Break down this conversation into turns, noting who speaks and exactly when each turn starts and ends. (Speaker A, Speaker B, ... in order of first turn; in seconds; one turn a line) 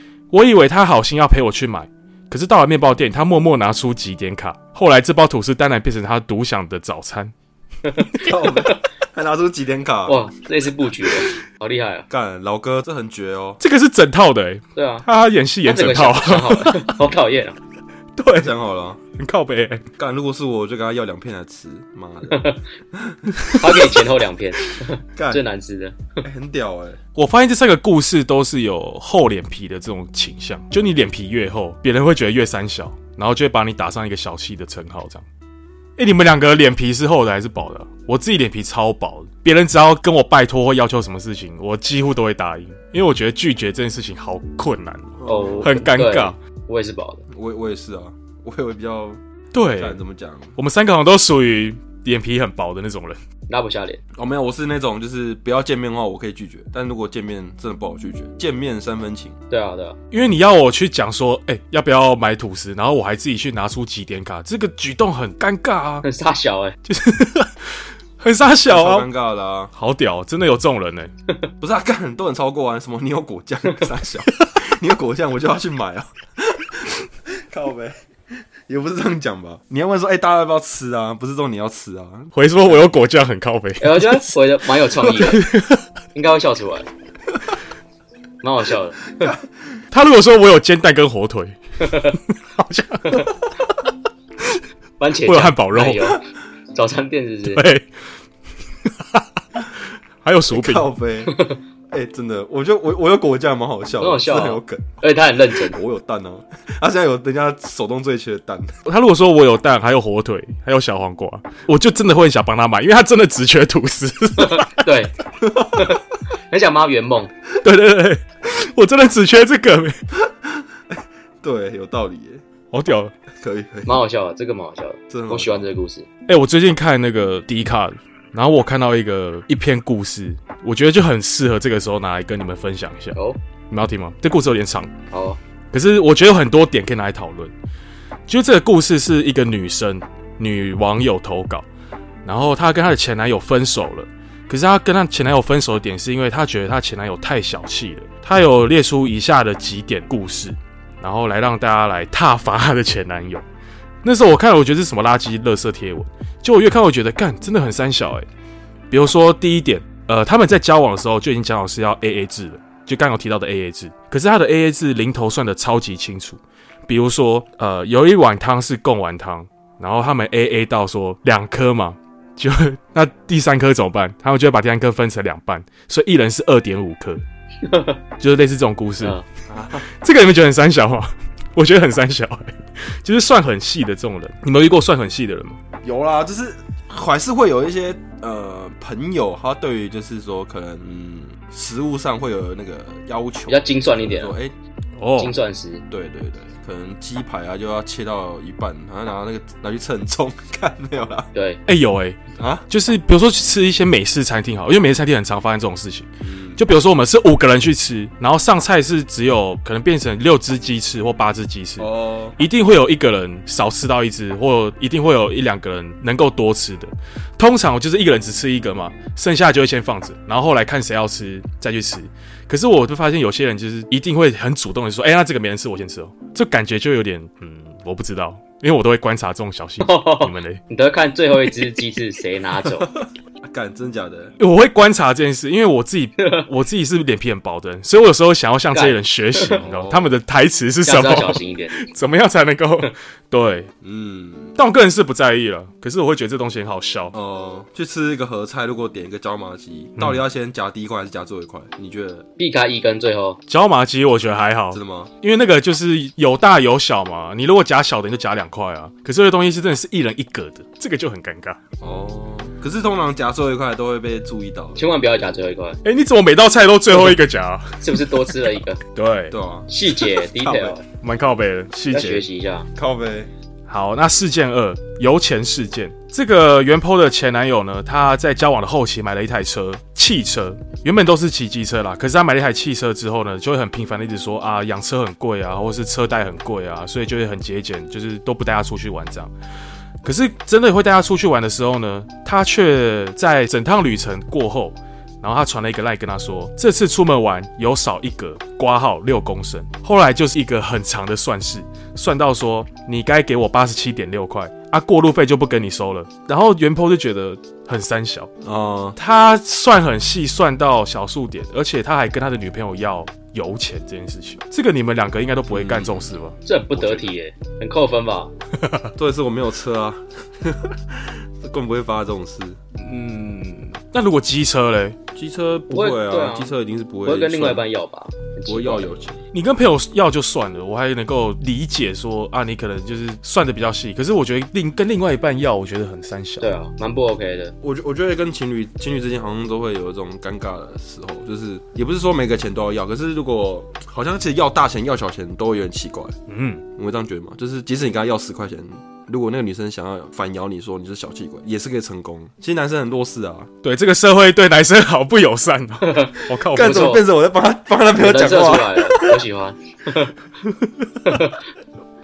Speaker A: 0.3-7.3
Speaker B: 7.8-8.8
Speaker C: 8.1-10.2
Speaker B: 10.1-12.1
Speaker C: 12.1-13.6
Speaker A: 13.6-17.0
Speaker B: 14.7-15.1
Speaker B: 15.6-17.6
Speaker A: 18.2-18.5
Speaker C: 18.4-19.0
Speaker A: 19.2-19.8
Speaker C: 20.0-23.3
Speaker B: 22.3-22.7
Speaker A: 23.3-24.0
Speaker B: 23.6-26.2
Speaker C: 25.1-25.4
Speaker C: 26.2-27.0
Speaker A: 27.1-35.2
Speaker A: 36.0-46.4
Speaker C: 45.2-45.8
Speaker B: 45.2-47.2
Speaker C: 47.3-49.2
Speaker A: 49.5-50.0
Speaker C: 49.7-50.5
Speaker A: 50.5-53.2
Speaker B: 53.5-54.0
Speaker C: 54.1-59.4
Speaker B: 59.5-60.0
Speaker A: 60.1-66.0
Speaker B: 66.0-66.8
Speaker A: 66.9-69.1
Speaker C: 68.7-69.7
Speaker A: 69.7-71.1
Speaker C: 71.6-78.0
Speaker C: 78.7-82.9
Speaker A: 82.3-84.3
Speaker B: 83.8-85.5
Speaker A: 85.0-85.8
Speaker B: 86.1-86.9
Speaker B: 88.4-89.3
Speaker A: 89.9-93.5
Speaker B: 91.8-92.2
Speaker B: 95.0-97.6
Speaker A: 95.2-96.2
Speaker A: 97.4-97.8
Speaker A: 98.8-99.7
Speaker A: 100.2-100.9
Speaker C: 100.5-101.4
Speaker B: 101.3-101.6
Speaker C: 101.9-108.7
Speaker B: 104.0-105.8
Speaker A: 108.8-114.9
Speaker B: 114.4-117.3
Speaker C: 115.4-115.9
Speaker A: 117.6-119.9
Speaker C: 120.2-122.4
Speaker A: 122.7-123.1
Speaker C: 123.3-124.0
Speaker B: 123.8-126.1
Speaker C: 125.1-125.7
Speaker A: 126.3-133.2
Speaker A: 133.7-134.9
Speaker B: 135.1-135.4
Speaker A: 135.7-137.5
Speaker A: 138.3-141.7
Speaker A: 142.2-153.4
Speaker A: 154.0-158.3
Speaker A: 158.9-177.2
Speaker B: 177.6-178.0
Speaker A: 178.2-179.2
Speaker C: 179.5-179.8
Speaker A: 179.9-185.6
Speaker C: 185.8-194.5
Speaker B: 193.5-194.3
Speaker A: 195.0-195.3
Speaker B: 195.2-195.8
Speaker C: 195.9-201.3
Speaker B: 201.3-201.6
Speaker A: 201.7-202.2
Speaker C: 202.4-202.7
Speaker A: 202.7-230.6
Speaker C: 206.2-206.6
Speaker C: 211.8-212.4
Speaker B: 229.8-232.9
Speaker C: 233.4-234.4
Speaker A: 234.4-243.7
Speaker B: 236.2-236.5
Speaker B: 238.7-239.6
Speaker C: 239.6-240.2
Speaker B: 240.8-241.8
Speaker C: 243.8-244.5
Speaker A: 244.6-247.1
Speaker C: 247.1-252.3
Speaker B: 252.4-253.4
Speaker A: 253.5-261.6
Speaker C: 254.7-255.1
Speaker C: 261.8-264.8
Speaker B: 264.8-265.8
Speaker A: 265.8-269.4
Speaker B: 267.8-268.8
Speaker C: 269.3-270.8
Speaker B: 269.7-270.8
Speaker A: 271.0-272.2
Speaker B: 271.9-272.7
Speaker C: 272.7-273.3
Speaker A: 273.7-289.3
Speaker A: 290.0-308.3
Speaker C: 308.4-309.0
Speaker A: 308.9-317.1
Speaker C: 315.5-316.1
Speaker B: 316.4-318.3
Speaker C: 318.9-322.6
Speaker A: 322.8-325.0
Speaker C: 325.1-327.6
Speaker B: 325.7-326.5
Speaker B: 327.0-328.9
Speaker C: 328.5-329.2
Speaker A: 329.3-336.5
Speaker B: 336.4-337.5
Speaker C: 337.6-346.2
Speaker A: 346.3-346.6
Speaker C: 346.8-353.5
Speaker A: 353.6-356.9
Speaker B: 355.8-357.0
Speaker C: 356.4-359.1
Speaker B: 357.9-360.1
Speaker B: 361.0-361.4